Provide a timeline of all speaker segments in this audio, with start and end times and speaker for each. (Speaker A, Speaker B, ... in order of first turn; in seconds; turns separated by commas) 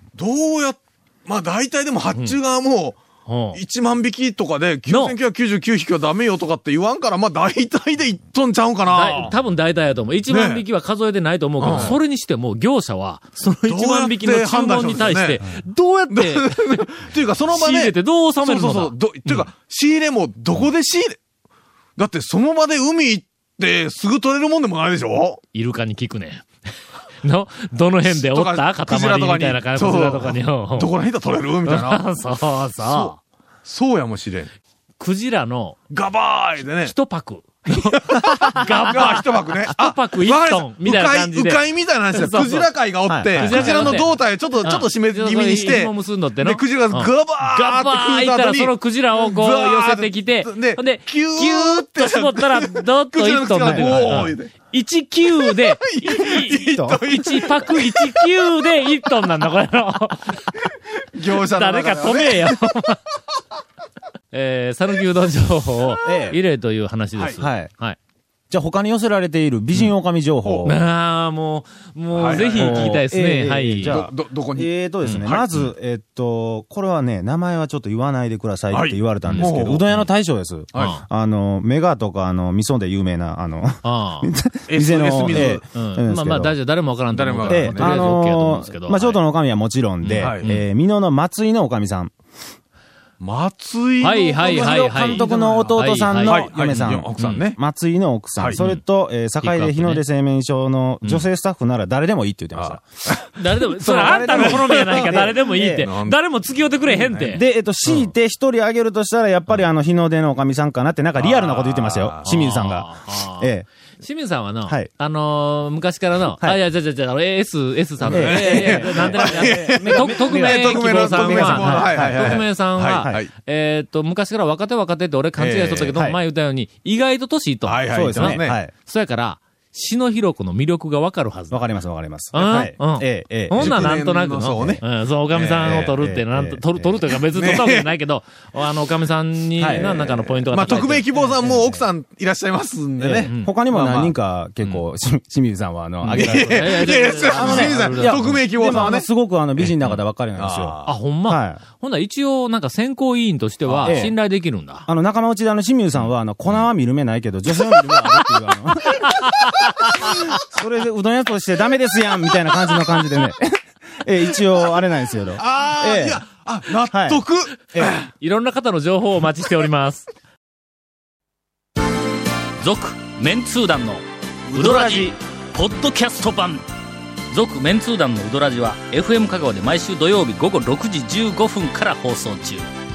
Speaker A: 0.2-3.0, Speaker B: 3.2-3.6, Speaker A: 3.5-9.3, Speaker B: 4.9-5.2, Speaker B: 8.9-16.8, Speaker A: 10.3-10.6, Speaker A: 11.6-12.0, Speaker A: 13.7-15.4, Speaker A: 16.1-21.2, Speaker B: 17.5-19.5, Speaker A: 22.0-25.4, Speaker B: 25.5-26.4, Speaker B: 27.2-30.9, Speaker A: 28.0-32.0, Speaker B: 31.6-33.1, Speaker A: 32.8-34.5, Speaker B: 35.0-35.8, Speaker A: 35.9-36.9, Speaker B: 36.7-42.7, Speaker A: 37.7-54.5, Speaker C: 43.1-44.0, Speaker B: 43.3-60.5, Speaker C: 53.6-54.3, Speaker A: 55.4-58.6, Speaker C: 56.7-57.0, Speaker A: 60.5-62.6, Speaker B: 61.4-63.0, Speaker B: 64.3-68.0, Speaker C: 66.0-66.4, Speaker C: 67.4-67.7, Speaker C: 68.5-70.8, Speaker A: 70.4-70.8, Speaker B: 70.6-74.0, Speaker A: 72.1-73.0, Speaker C: 72.3-86.5, Speaker A: 73.8-74.7, Speaker B: 75.0-75.7, Speaker A: 78.7-79.9, Speaker B: 79.2-80.0, Speaker A: 80.7-81.0, Speaker B: 80.7-81.0, Speaker B: 83.8-84.3, Speaker A: 84.7-85.6, Speaker B: 85.3-89.2, Speaker A: 87.1-88.2, Speaker C: 87.5-92.1, Speaker B: 90.0-90.6, Speaker A: 90.2-90.5, Speaker A: 93.2-95.7, Speaker B: 94.0-96.5, Speaker C: 94.4-102.8, Speaker A: 96.2-97.6, Speaker B: 98.5-100.0, Speaker A: 102.5-106.2, Speaker B: 103.4-108.1, Speaker C: 103.8-105.9, Speaker A: 106.8-107.4, Speaker C: 107.3-113.7, Speaker A: 111.2-112.5, Speaker B: 112.2-131.7, Speaker C: 114.6-114.9, Speaker A: 118.0-123.3, Speaker C: 118.0-123.2, Speaker A: 125.4-126.0, Speaker A: 127.6-128.6, Speaker C: 127.9-128.7, Speaker C: 131.5-134.8, Speaker B: 132.3-141.2, Speaker A: 132.4-132.7, Speaker A: 133.6-135.9, Speaker C: 135.6-137.0, Speaker A: 137.3-137.9, Speaker C: 139.6-140.3, Speaker A: 139.7-144.1, Speaker C: 141.3-141.8, Speaker C: 143.0-151.6, Speaker B: 143.2-143.5, Speaker B: 146.0-148.9, Speaker A: 146.1-149.7, Speaker A: 150.4-150.9, Speaker B: 150.8-154.9, Speaker A: 153.7-154.1, Speaker C: 153.8-166.2, Speaker A: 165.4-168.1, Speaker C: 166.9-168.0, Speaker B: 168.0-170.1, Speaker B: 172.6-174.0, Speaker D: 172.6-174.0, Speaker A: 174.5-174.8, Speaker B: 174.6-175.1, Speaker D: 174.6-176.6, Speaker B: 175.6-176.5, Speaker D: 177.3-182.6, Speaker B: 177.4-178.9, Speaker B: 179.7-180.5, Speaker B: 181.1-182.6